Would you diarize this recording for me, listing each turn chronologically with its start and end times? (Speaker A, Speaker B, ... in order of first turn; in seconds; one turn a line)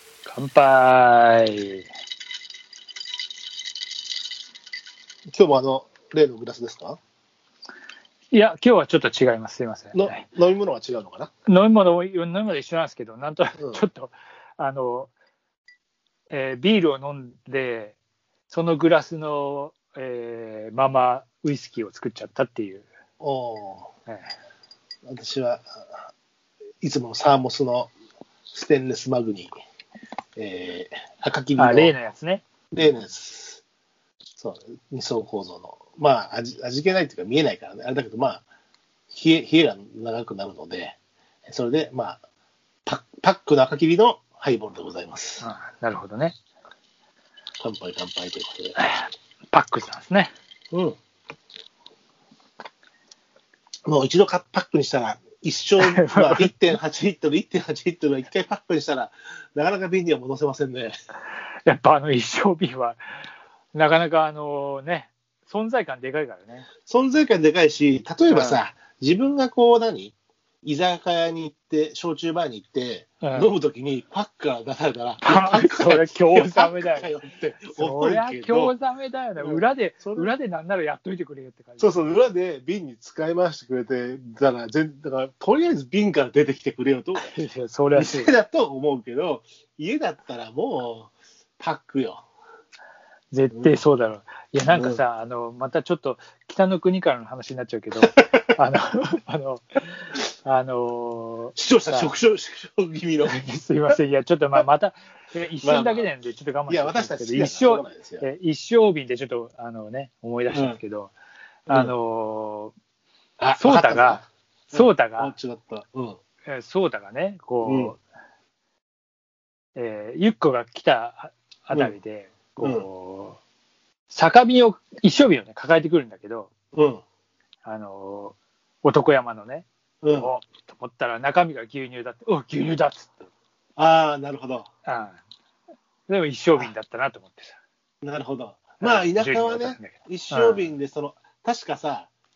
Speaker A: 0.3-1.9
Speaker B: 5.3-7.0
Speaker A: 8.3-10.2
Speaker B: 9.9-11.3
Speaker A: 11.5-15.1
Speaker B: 13.6-13.8
Speaker A: 16.3-18.0
Speaker A: 18.5-22.9
Speaker B: 23.2-23.9
Speaker B: 25.1-25.9
Speaker B: 26.8-27.9
Speaker B: 28.5-29.5
Speaker B: 30.4-32.0
Speaker A: 31.6-32.5
Speaker B: 32.7-33.6
Speaker B: 34.4-38.4
Speaker B: 39.1-42.2
Speaker B: 42.9-45.5
Speaker A: 45.4-46.4
Speaker B: 47.6-48.8
Speaker A: 48.8-50.3
Speaker B: 53.9-60.9
Speaker A: 55.8-56.5
Speaker A: 61.7-63.0
Speaker A: 63.7-66.7
Speaker B: 66.9-78.7
Speaker A: 68.3-68.6
Speaker A: 73.2-73.5
Speaker A: 75.2-81.9
Speaker B: 79.4-80.3
Speaker B: 81.8-87.3
Speaker A: 87.2-88.3
Speaker B: 88.0-92.2
Speaker A: 93.3-102.1
Speaker B: 94.7-95.0
Speaker B: 98.0-98.6
Speaker B: 101.6-103.4
Speaker A: 103.2-111.1
Speaker B: 105.6-106.1
Speaker B: 106.7-108.3
Speaker B: 110.5-110.8
Speaker B: 111.7-111.9
Speaker A: 111.7-112.7
Speaker B: 113.4-116.2
Speaker A: 113.6-115.3
Speaker A: 116.5-118.0
Speaker B: 117.7-118.0
Speaker A: 119.8-123.4
Speaker B: 122.6-122.9
Speaker A: 124.1-126.5
Speaker B: 126.7-127.0
Speaker A: 127.6-133.3
Speaker B: 130.0-130.3
Speaker B: 133.8-134.7
Speaker A: 134.9-135.2
Speaker A: 136.1-137.6
Speaker B: 138.0-142.1
Speaker A: 138.8-140.7